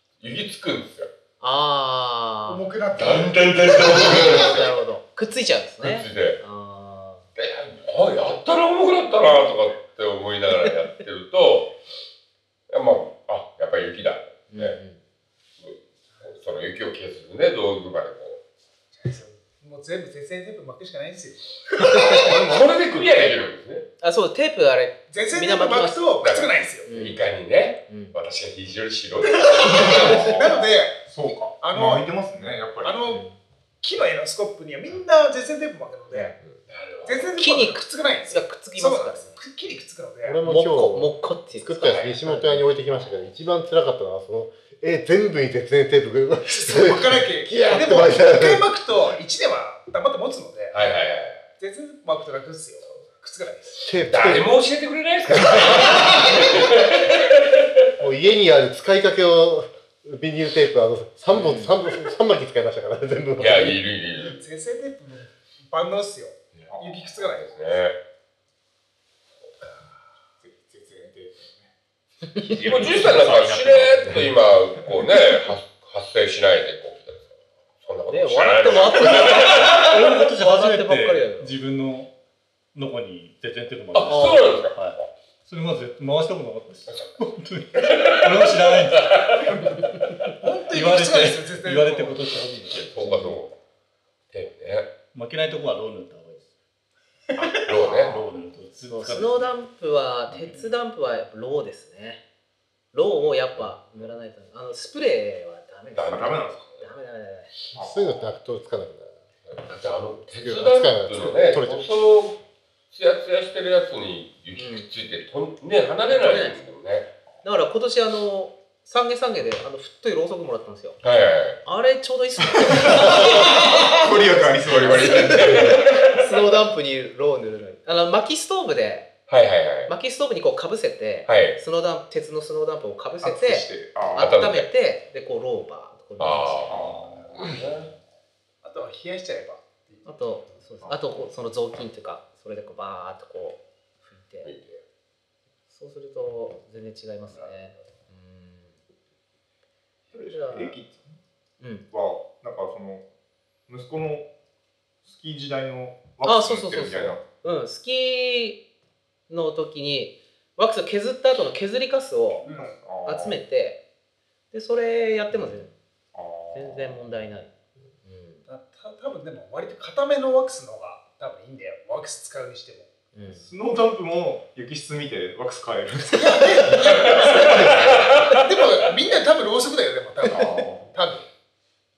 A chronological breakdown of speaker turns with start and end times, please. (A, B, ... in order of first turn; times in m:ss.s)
0:00.2-0:01.1 A
0:01.4-0:02.6 B
0:02.5-0:04.5 C
0:02.9-0:04.8 A
0:03.7-0:07.2 B
0:05.8-0:06.4 A
0:07.4-0:11.7 A
0:12.7-0:14.8 A
0:14.5-0:15.0 B
0:15.6-0:18.4 A
0:19.0-0:22.2 C
0:21.8-0:23.2 D
0:22.2-0:23.8 A
0:24.0-0:26.1 B
0:25.1-0:26.9 C
0:26.2-0:30.7 A
0:26.8-0:27.2 B
0:27.9-0:28.1 B
0:29.2-0:32.1 C
0:29.8-0:33.0 D
0:32.8-0:33.2 C
0:33.1-0:33.4 B
0:33.8-0:36.4 C
0:36.7-0:37.4 A
0:37.0-0:40.4 C
0:37.4-0:39.4 B
0:40.2-0:48.6 E
0:40.4-0:42.7 B
0:46.5-0:50.8 C
0:50.7-0:51.4 A
0:51.6-0:53.8 C
0:53.8-0:54.5 E
0:54.1-0:57.6 A
0:58.0-1:03.8 E
1:01.3-1:01.7 B
1:03.4-1:04.4 A
1:04.2-1:07.5 C
1:06.5-1:08.0 A
1:10.4-1:11.7 D
1:12.4-1:14.0 D
1:12.6-1:20.0 A
1:12.6-1:14.3 F
1:18.1-1:21.6 B
1:19.2-1:22.1 F
1:22.7-1:29.4 F
1:23.9-1:25.1 A
1:24.1-1:24.5 B
1:27.7-1:30.3 A
1:29.4-1:29.8 D
1:30.4-1:33.3 F
1:30.4-1:32.2 C
1:32.7-1:33.5 A
1:34.3-1:34.9 A
1:35.1-1:36.5 F
1:37.3-1:39.5 F
1:37.6-1:38.3 A
1:38.9-1:42.2 B
1:40.3-1:40.6 F
1:42.9-1:47.5 B
1:45.9-1:46.8 A
1:46.1-1:46.6 D
1:47.7-1:48.3 D
1:47.7-1:49.1 E
1:49.4-1:57.1 A
1:50.3-1:51.8 E
1:54.6-1:54.9 B
1:56.0-1:56.6 B
1:57.4-2:01.0 B
2:01.0-2:01.6 A
2:01.6-2:09.1 B
2:02.6-2:05.8 D
2:04.6-2:06.2 A
2:09.3-2:09.9 A
2:09.9-2:16.8 B
2:11.2-2:11.6 A
2:13.2-2:14.4 D
2:14.2-2:14.7 A
2:16.2-2:17.9 A
2:16.7-2:17.5 D
2:18.6-2:20.1 C
2:20.0-2:24.5 B
2:24.4-2:24.8 A
2:25.7-2:28.8 B
2:30.1-2:31.2 D
2:30.2-2:30.8 B
2:31.6-2:31.9 B
2:31.9-2:33.0 D
2:33.7-2:34.3 D
2:35.0-2:37.2 D
2:36.2-2:38.6 B
2:39.3-2:42.4 B
2:42.4-2:42.7 C
2:42.4-2:43.4 D
2:43.0-2:43.8 B
2:44.5-2:45.7 B
2:46.1-2:47.0 D
2:46.5-2:47.5 B
2:48.0-2:48.5 B
2:48.5-2:52.9 C
2:53.1-2:53.4 B
2:53.3-2:57.8 D
2:56.1-3:01.2 C
2:56.4-2:56.7 B
2:56.9-2:58.4 A
3:00.3-3:01.0 D